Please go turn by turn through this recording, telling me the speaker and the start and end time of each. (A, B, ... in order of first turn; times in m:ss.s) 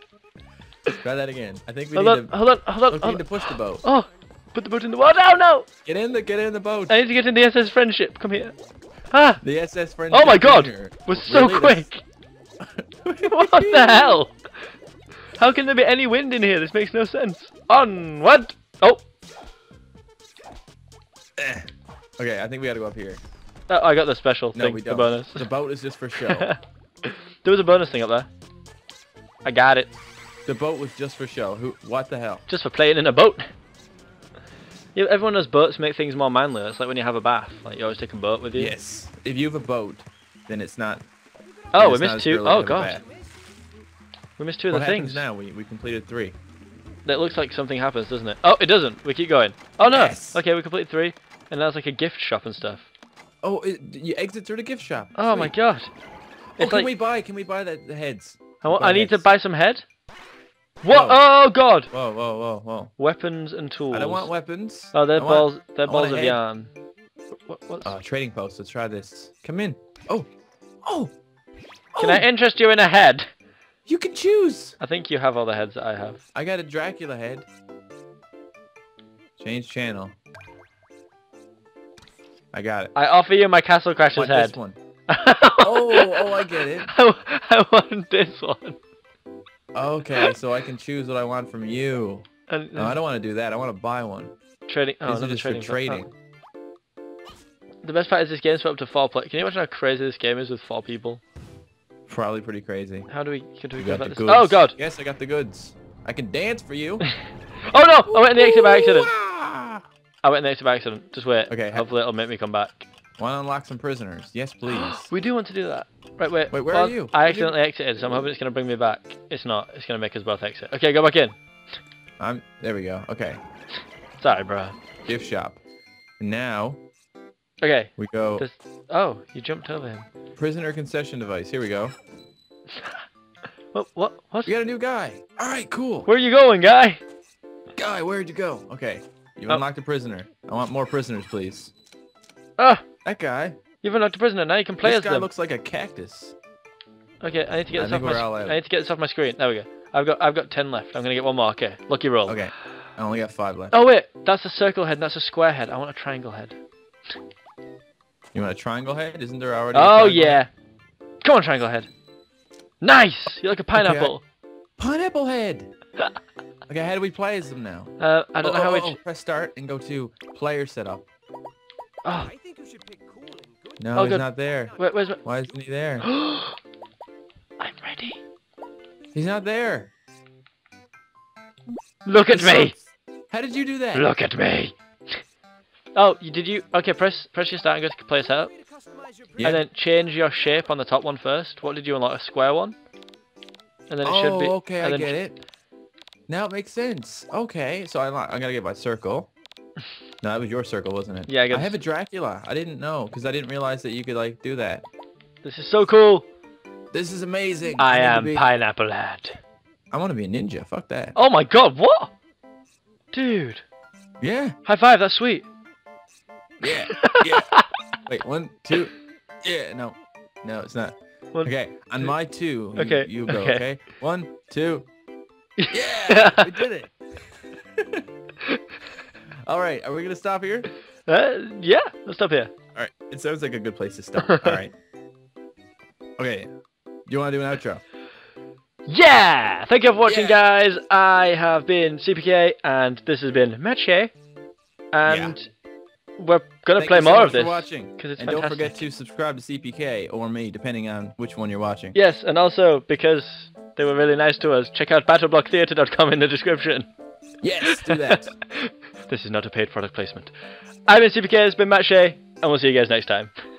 0:00.9-0:03.8 A
0:01.9-0:05.7 B
0:05.8-0:07.0 A
0:06.9-0:08.6 B
0:09.1-0:09.4 B
0:09.4-0:11.8 A
0:10.1-0:12.0 B
0:12.6-0:14.2 A
0:13.2-0:14.3 B
0:15.3-0:19.0 B
0:21.4-0:23.2 A
0:23.7-0:25.5 B
0:24.5-0:26.5 A
0:26.2-0:28.3 B
0:29.4-0:29.9 B
0:30.4-0:32.4 A
0:32.5-0:33.5 B
0:34.9-0:38.7 B
0:38.5-0:41.0 A
0:41.4-0:43.4 C
0:41.7-0:43.0 B
0:41.8-0:43.0 A
0:44.4-0:45.2 B
0:44.7-0:46.4 A
0:47.0-0:52.8 B
0:49.8-0:50.4 A
0:53.4-0:55.5 A
0:55.1-0:55.9 B
0:56.6-0:56.9 B
0:56.6-0:59.2 A
0:58.6-0:59.8 B
1:00.8-1:01.9 B
1:00.9-1:01.3 A
1:01.9-1:02.9 A
1:03.0-1:04.3 B
1:03.9-1:06.4 A
1:04.9-1:06.7 B
1:07.5-1:07.9 B
1:07.8-1:10.3 A
1:10.8-1:11.1 A
1:11.9-1:12.2 A
1:12.0-1:13.3 B
1:13.8-1:14.8 A
1:14.8-1:16.2 B
1:16.3-1:17.5 A
1:19.4-1:20.2 A
1:22.5-1:22.9 A
1:22.9-1:24.6 B
1:24.1-1:24.8 A
1:25.1-1:28.8 B
1:25.6-1:26.9 A
1:29.7-1:34.3 A
1:32.5-1:33.0 B
1:34.7-1:36.0 B
1:35.0-1:36.1 A
1:37.8-1:41.2 B
1:42.1-1:43.1 A
1:43.1-1:44.8 B
1:43.8-1:47.1 A
1:47.7-1:49.1 B
1:48.1-1:49.8 A
1:50.2-1:52.9 B
1:51.5-1:51.9 A
1:53.2-1:55.1 A
1:54.7-2:01.4 B
1:56.5-1:57.6 A
2:02.2-2:03.4 A
2:04.2-2:04.8 B
2:05.0-2:05.6 A
2:06.2-2:06.8 A
2:07.6-2:10.1 B
2:08.0-2:08.4 A
2:10.4-2:11.9 A
2:12.7-2:13.0 B
2:13.7-2:14.5 B
2:14.4-2:16.1 A
2:16.0-2:17.0 B
2:17.8-2:21.7 A
2:22.6-2:22.8 B
2:23.0-2:23.6 A
2:23.8-2:25.3 B
2:24.8-2:26.3 A
2:27.2-2:32.4 B
2:27.7-2:28.6 A
2:32.2-2:33.8 A
2:33.7-2:36.6 B
2:38.3-2:40.4 A
2:39.7-2:40.5 B
2:41.2-2:41.9 B
2:42.8-2:44.2 B
2:43.7-2:44.1 A
2:44.8-2:45.7 A
2:46.7-2:51.0 A
2:48.0-2:49.0 B
2:52.0-2:52.3 B
2:52.1-2:55.6 C
2:53.8-2:56.1 A
2:54.0-2:55.2 B
2:56.0-2:56.6 B
2:57.6-2:58.2 B
2:59.1-2:59.9 A
3:02.0-3:02.7 B
3:02.3-3:04.1 A
3:03.9-3:05.2 B
3:05.9-3:08.5 B
3:08.2-3:09.6 C
3:09.4-3:09.6 A
3:09.4-3:12.8 B
3:13.9-3:15.2 B
3:14.0-3:15.4 A
3:16.3-3:19.3 A
3:20.2-3:24.8 A
3:21.3-3:21.8 B
3:25.4-3:26.2 B
3:26.9-3:28.5 A
3:27.7-3:29.4 B
3:29.9-3:31.1 A
3:31.2-3:32.1 B
3:33.1-3:33.6 B
3:34.2-3:34.6 A
3:34.6-3:35.5 B
3:36.6-3:37.5 A
3:36.6-3:37.6 B
3:38.0-3:44.9 A
3:41.3-3:42.1 B
3:42.8-3:43.6 B
3:45.6-3:46.7 B
3:45.7-3:46.9 A
3:47.8-3:48.0 A
3:49.5-3:50.7 A
3:51.1-3:52.5 B
3:52.7-3:54.7 A
3:54.2-3:54.6 B
3:56.2-3:56.5 A
3:57.1-3:57.8 A
3:58.9-4:04.1 B
4:00.0-4:00.4 A
4:04.9-4:05.5 B
4:05.0-4:05.3 A
4:06.2-4:08.8 B
4:06.8-4:12.0 A
4:11.9-4:16.9 B
4:17.4-4:18.3 A
4:17.6-4:20.3 B
4:20.9-4:23.3 B